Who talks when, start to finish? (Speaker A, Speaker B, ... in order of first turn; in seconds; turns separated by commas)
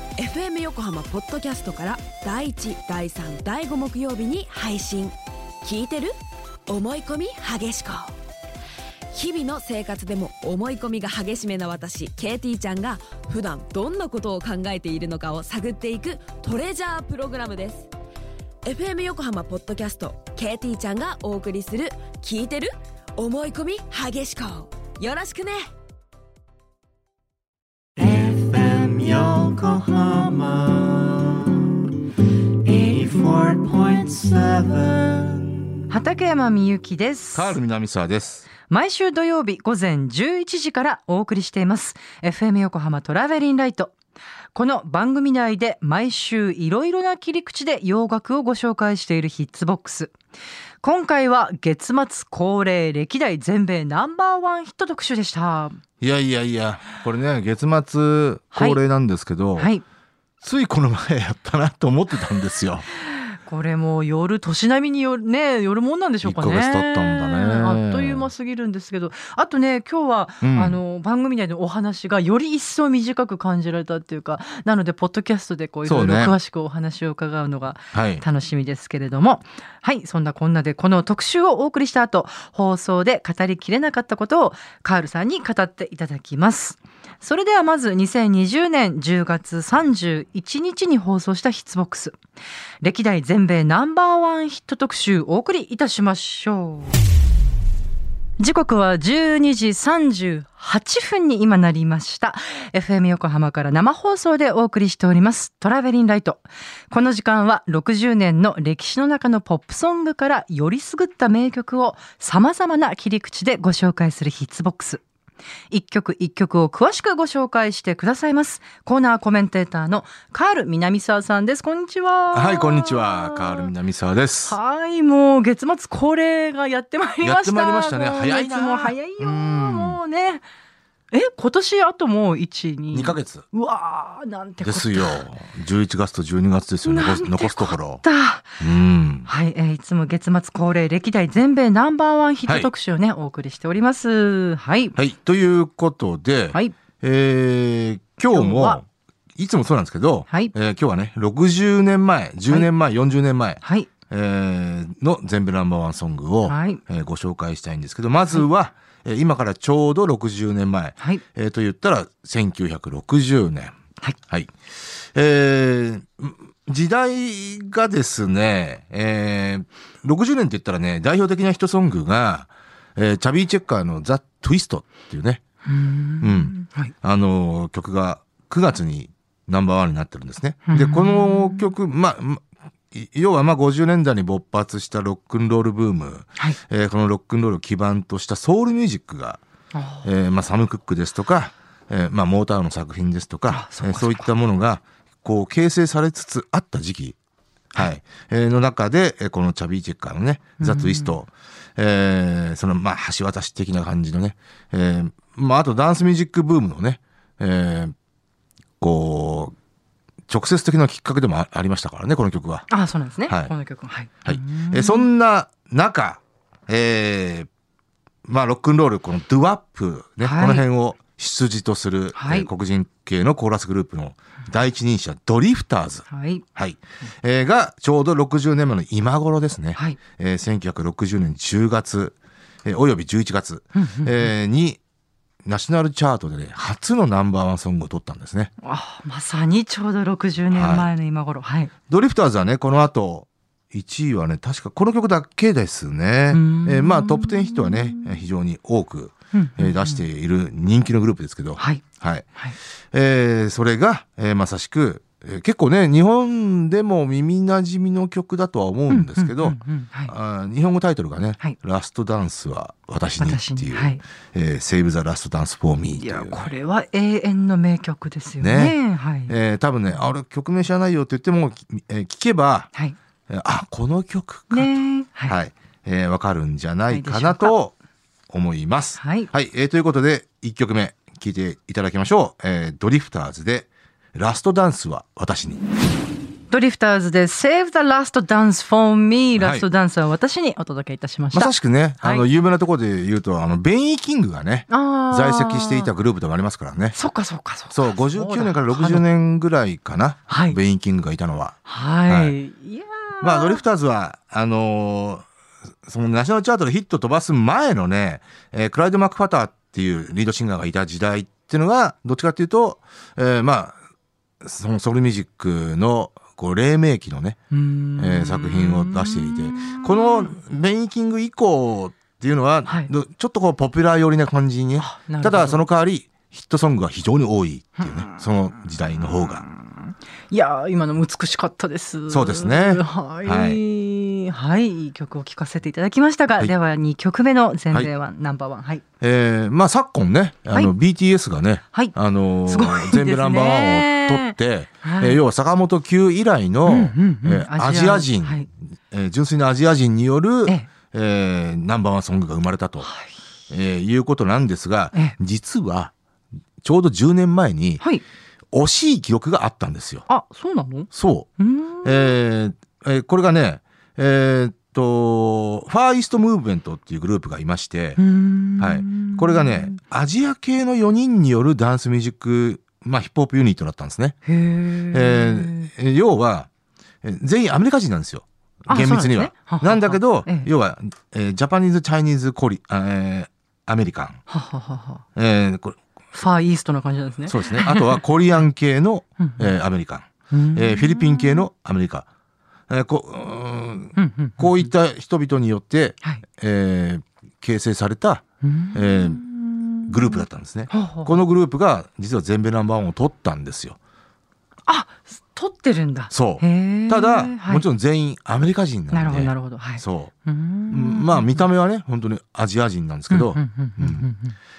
Speaker A: 0.2-6.1, Speaker A: 6.7-8.1, Speaker A: 9.1-17.9, Speaker A: 18.6-25.6, Speaker B: 28.0-31.5, Speaker B: 32.6-35.5, Speaker C: 35.9-37.6, Speaker D: 37.3-38.5, Speaker C: 38.7-43.9, Speaker C: 44.5-50.1, Speaker C: 50.8-55.8, Speaker D: 56.0-59.7, Speaker C: 58.5-58.8, Speaker C: 59.6-59.8, Speaker D: 60.4-62.9, Speaker C: 63.1-92.2, Speaker D: 66.2-68.3, Speaker D: 70.4-70.8, Speaker D: 75.8-76.3, Speaker D: 77.9-78.2, Speaker C: 92.8-97.0, Speaker C: 98.4-115.0, Speaker C: 115.7-123.7, Speaker D: 122.3-124.5, Speaker C: 124.5-130.4, Speaker D: 127.2-130.0, Speaker C: 131.1-135.2, Speaker D: 132.9-133.4, Speaker D: 134.6-138.0, Speaker C: 136.8-138.6, Speaker D: 138.6-139.3, Speaker C: 139.3-144.9, Speaker D: 144.9-148.8, Speaker C: 148.3-148.8, Speaker D: 149.3-163.7, Speaker C: 153.6-153.9, Speaker C: 156.4-156.8, Speaker D: 164.3-175.4, Speaker C: 175.7-176.9, Speaker D: 176.2-189.4, Speaker C: 180.7-181.7, Speaker C: 189.7-190.1, Speaker D: 190.0-197.2, Speaker C: 193.5-194.3, Speaker D: 197.7-207.9, Speaker C: 200.6-201.1, Speaker D: 208.8-209.5, Speaker D: 210.3-212.7, Speaker C: 212.7-215.1, Speaker D: 213.3-213.5, Speaker D: 214.2-217.5, Speaker D: 218.3-234.8, Speaker C: 220.2-220.6, Speaker C: 222.2-222.5, Speaker C: 226.1-226.4, Speaker C: 233.7-234.3, Speaker D: 235.4-238.5, Speaker C: 238.6-241.7, Speaker D: 240.5-240.9, Speaker D: 241.9-252.2, Speaker C: 246.3-248.2, Speaker C: 249.3-250.0, Speaker C: 251.6-251.8, Speaker D: 252.9-266.5, Speaker C: 258.9-260.1, Speaker C: 263.2-264.0, Speaker C: 266.0-269.3, Speaker D: 268.4-272.7, Speaker D: 273.3-274.7, Speaker C: 274.5-275.4, Speaker D: 275.3-277.7, Speaker C: 276.9-277.5, Speaker D: 278.3-285.6, Speaker C: 279.0-279.3, Speaker C: 286.5-292.2, Speaker D: 289.4-289.6, Speaker D: 291.3-296.9, Speaker C: 294.7-295.9, Speaker C: 296.9-299.0, Speaker D: 297.7-302.3, Speaker C: 300.3-300.6, Speaker C: 301.6-303.6, Speaker D: 303.2-305.2, Speaker D: 305.9-313.8, Speaker D: 314.4-317.4, Speaker C: 317.5-320.4, Speaker D: 318.0-329.4, Speaker C: 324.8-325.6, Speaker C: 327.8-328.2, Speaker C: 329.5-338.8, Speaker D: 332.1-333.6, Speaker D: 339.0-352.9, Speaker C: 342.5-345.2, Speaker C: 346.6-348.5, Speaker C: 352.8-353.1, Speaker D: 353.5-355.9, Speaker D: 356.6-357.8, Speaker D: 358.5-360.0, Speaker C: 360.1-362.1, Speaker D: 360.9-361.3, Speaker D: 361.8-368.0, Speaker C: 368.0-369.8, Speaker D: 368.6-374.1, Speaker C: 374.2-375.7, Speaker D: 374.9-376.5, Speaker D: 377.0-384.2, Speaker C: 378.7-380.5, Speaker C: 384.3-385.0, Speaker D: 385.1-385.8, Speaker C: 386.1-388.0, Speaker D: 387.3-392.1, Speaker C: 389.2-389.5, Speaker C: 390.3-391.4, Speaker D: 392.7-399.2, Speaker C: 393.9-394.7, Speaker C: 398.4-401.2, Speaker D: 399.9-403.8, Speaker C: 404.7-407.6, Speaker D: 406.1-410.1, Speaker C: 408.9-411.4, Speaker D: 410.7-414.1, Speaker C: 413.1-414.4